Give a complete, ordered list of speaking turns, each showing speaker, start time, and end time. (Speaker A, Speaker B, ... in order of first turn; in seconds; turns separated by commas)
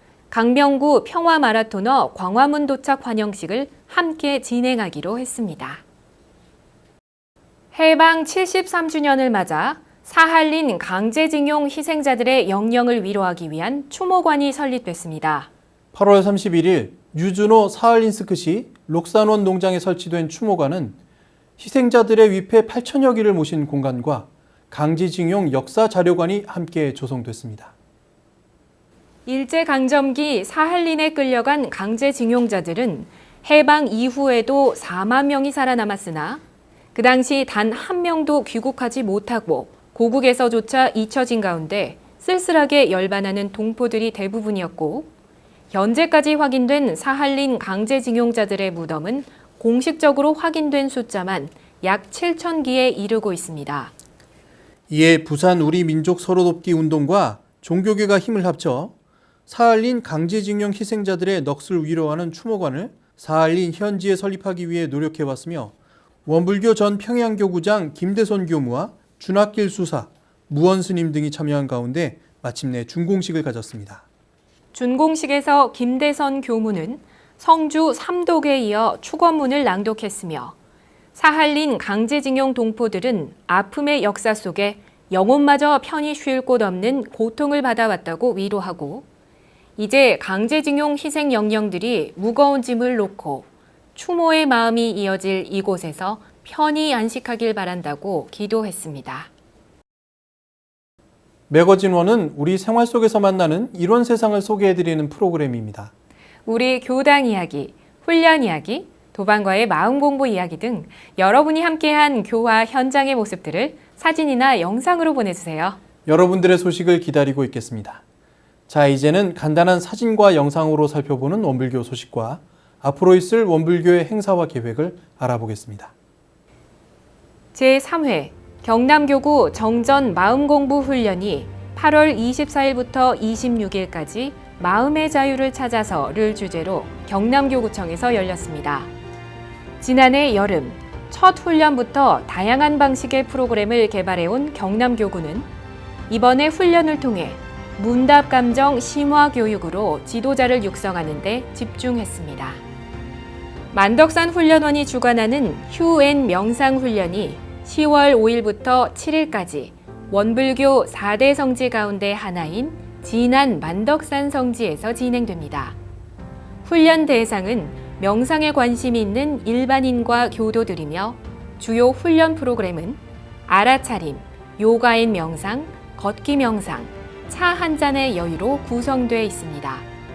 Speaker A: 0.3-5.8, Speaker A: 7.7-15.5, Speaker B: 15.9-20.9, Speaker B: 21.6-27.7, Speaker A: 29.2-36.4, Speaker A: 36.9-45.1, Speaker A: 45.7-53.9, Speaker B: 54.9-58.9, Speaker B: 59.5-65.7, Speaker B: 66.2-74.0, Speaker A: 74.7-80.5, Speaker A: 81.1-89.0, Speaker A: 89.8-99.3, Speaker B: 101.5-105.9, Speaker A: 106.5-115.8, Speaker B: 116.0-118.0, Speaker B: 118.7-125.9, Speaker A: 127.5-138.9, Speaker A: 139.8-145.5, Speaker A: 146.1-152.6, Speaker A: 153.7-165.8, Speaker A: 166.6-179.8